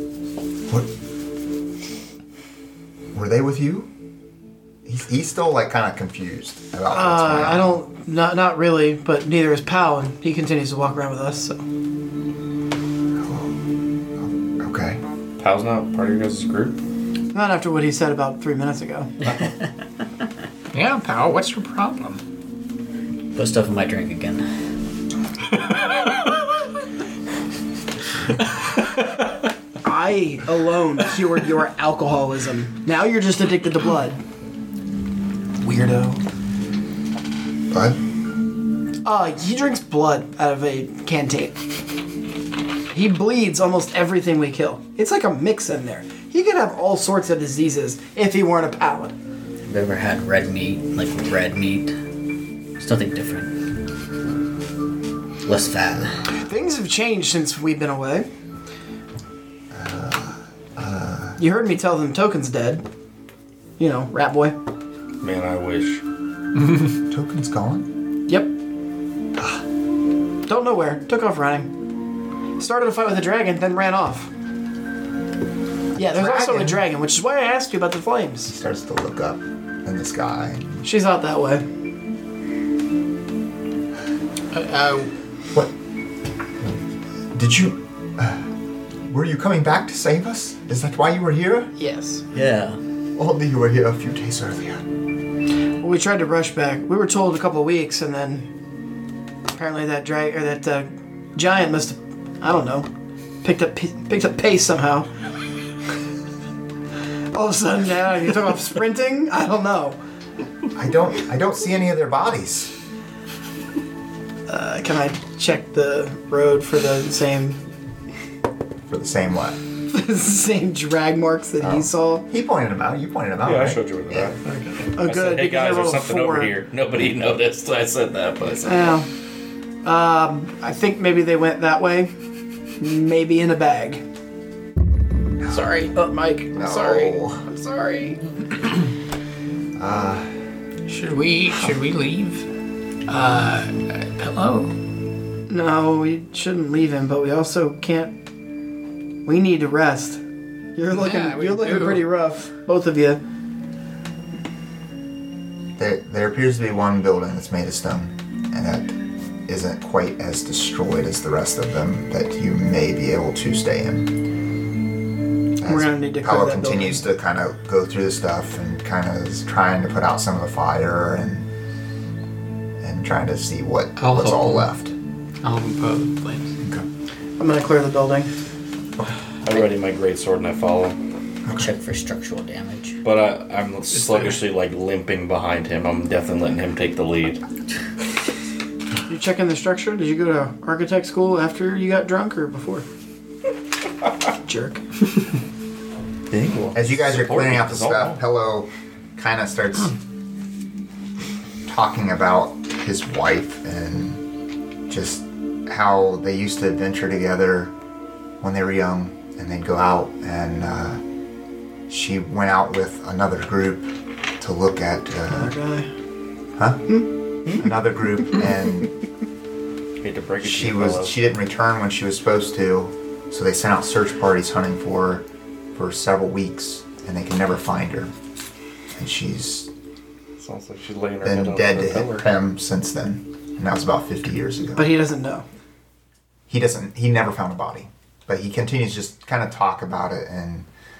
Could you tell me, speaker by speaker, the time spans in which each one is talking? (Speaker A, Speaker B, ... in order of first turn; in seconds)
Speaker A: 3.1-3.9, 4.8-7.8, 13.2-13.6, 14.2-15.0, 37.7-38.0, 59.7-61.4, 67.1-67.9, 69.4-69.6, 75.9-76.8, 78.5-80.8, 87.3-88.5, 89.1-91.7, 93.2-94.8, 110.7-112.7, 118.9-119.6, 121.6-124.4, 135.4-135.8, 136.5-137.4, 139.8-140.3, 155.8-164.2, 165.6-171.5, 172.8-174.9, 181.4-181.7, 196.7-200.0, 201.7-204.2, 204.9-207.7, 208.4-211.0, 211.9-215.5, 216.6-218.9, 220.4-228.1, 229.0-229.7, 231.2-234.9, 236.5-240.7
Speaker B: 6.9-11.6, 17.3-19.1, 29.8-34.2, 35.6-36.2, 39.0-41.6, 42.9-49.1, 56.3-58.3, 61.4-62.9, 63.8-64.6, 70.5-71.7, 72.6-74.3, 76.0-78.5, 80.8-81.7, 91.8-92.3, 95.8-98.5, 99.5-102.9, 103.4-105.1, 107.3-110.0, 114.5-117.6, 119.9-122.3, 124.8-126.5, 128.6-129.1, 129.8-132.1, 132.8-134.0, 135.9-138.2, 145.5-148.2, 149.3-150.2, 150.8-153.2, 165.7-167.0, 177.4-178.3, 189.1-192.8, 194.4-194.8, 215.3-215.9, 234.8-235.5
Speaker C: 15.4-16.8, 65.2-66.0, 123.4-124.4, 125.0-129.0, 179.4-181.0, 183.0-187.4, 196.3-198.2, 220.0-221.2, 230.4-232.3
Speaker D: 20.7-22.2, 28.5-29.3, 84.5-85.1, 135.6-135.9, 140.9-142.5, 143.1-144.7, 150.9-152.1, 174.0-174.7, 175.4-176.5, 183.9-184.4
Speaker E: 23.3-24.4, 49.6-52.0, 52.8-53.6, 55.5-56.2, 92.3-92.8, 181.5-183.0